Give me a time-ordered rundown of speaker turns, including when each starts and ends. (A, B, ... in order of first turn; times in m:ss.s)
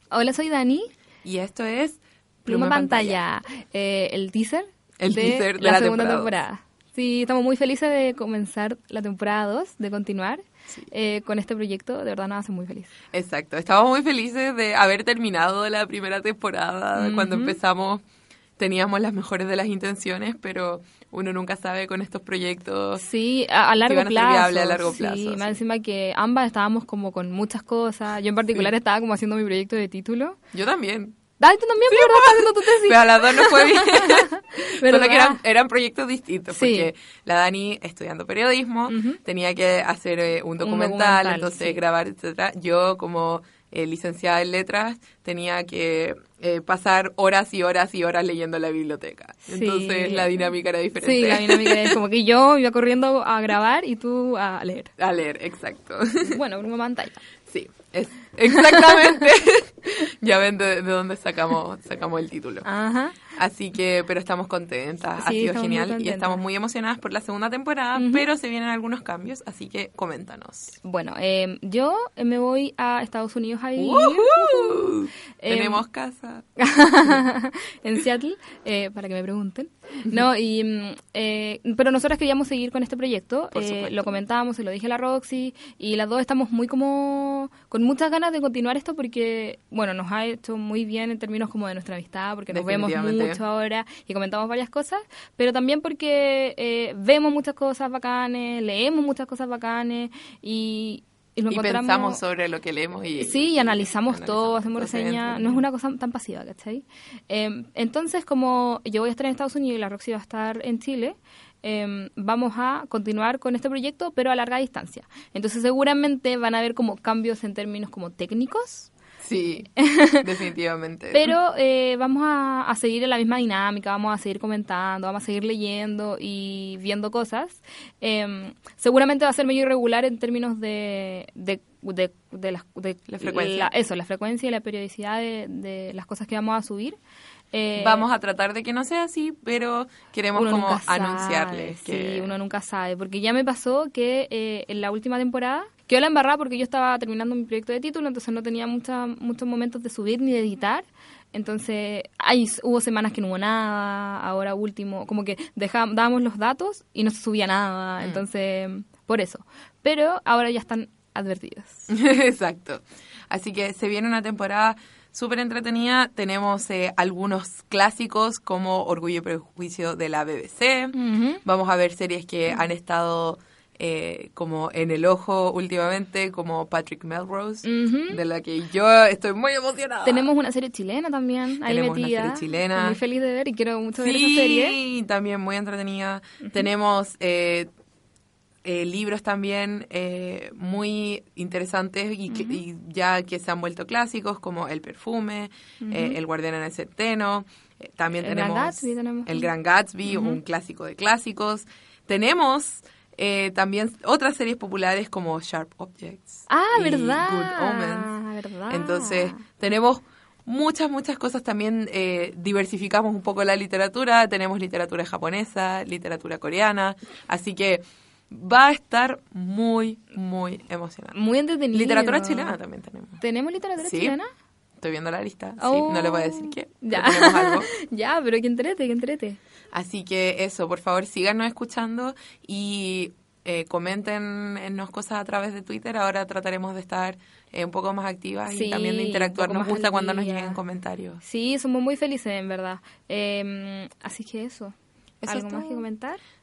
0:00.1-0:00.9 A
0:01.2-0:03.2 B
0:02.4-0:12.9 A
0:05.0-0:06.4 B
0:13.1-0:18.0 B
0:16.9-0:17.6 A
0:18.6-0:23.0 B
0:23.0-0:30.4 A
0:23.8-0:25.6 B
0:30.5-0:31.2 B
0:31.4-0:35.4 A
0:31.9-0:52.0 B
0:36.5-0:36.9 A
0:38.9-0:39.2 A
0:40.6-0:41.8 A
0:49.5-0:50.4 A
0:51.0-0:54.9 A
0:55.0-0:56.4 B
0:56.2-0:57.2 A
0:57.4-1:02.7 B
0:58.5-0:59.2 A
1:02.6-1:03.2 A
1:03.4-1:10.8 B
1:05.2-1:06.4 A
1:07.9-1:08.2 A
1:10.8-1:15.8 A
1:13.8-1:16.4 B
1:16.6-1:42.2 A
1:23.5-1:24.2 B
1:32.5-1:33.4 B
1:41.5-1:45.6 B
1:43.2-1:58.9 A
1:59.2-2:01.4 B
1:59.8-2:00.2 A
2:01.1-2:17.0 A
2:13.1-2:13.7 B
2:17.5-2:18.0 A
2:17.8-2:22.3 B
2:20.3-2:41.9 A
2:38.0-2:38.2 B
2:41.9-3:00.3 B
2:50.9-2:51.4 A
2:57.6-2:58.2 A
3:00.0-3:04.8 A
3:01.6-3:03.0 B
3:04.0-3:07.7 B
3:08.6-3:28.1 B
3:12.3-3:12.6 A
3:15.8-3:16.2 A
3:18.2-3:19.5 A
3:20.0-3:20.4 A
3:26.5-3:29.4 A
3:28.7-3:41.1 B
3:41.1-3:42.6 A
3:41.7-3:43.2 B
3:43.2-3:44.3 A
3:43.8-3:44.2 B
3:44.8-3:47.7 B
3:45.6-3:49.4 A
3:49.7-4:01.2 B
3:58.5-4:00.6 A
4:01.2-4:06.2 A
4:05.2-4:05.8 B